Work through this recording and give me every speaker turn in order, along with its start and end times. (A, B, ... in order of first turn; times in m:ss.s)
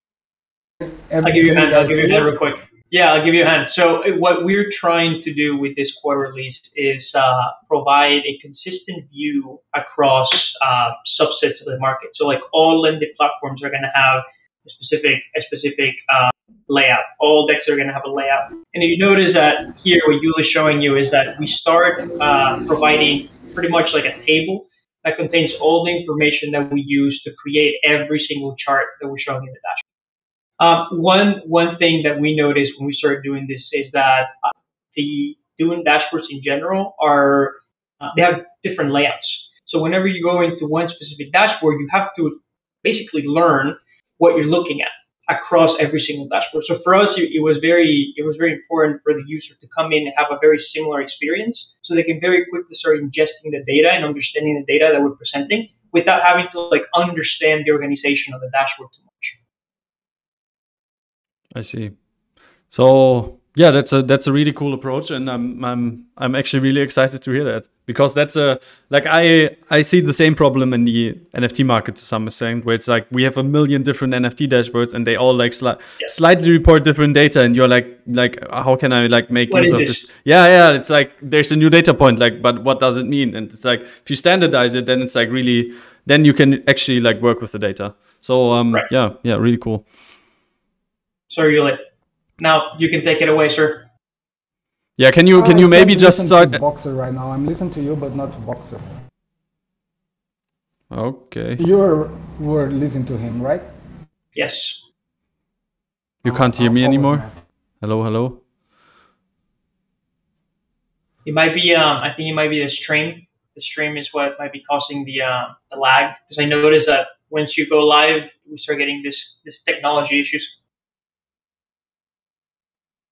0:00.8-0:02.3 A
0:01.2-0:29.8 B
0:30.6-0:59.3 B
1:01.5-1:02.0 C
1:02.7-1:29.9 C
1:19.5-1:20.0 B
1:31.3-1:31.8 B
1:32.4-1:33.9 B
1:35.0-1:36.6 C
1:35.3-1:38.8 A
1:40.9-1:41.6 C
1:41.6-1:43.6 A
1:44.3-1:44.8 B
1:46.2-1:47.3 C
1:46.2-1:47.3 A
1:47.8-1:48.4 C
1:51.2-2:00.5 B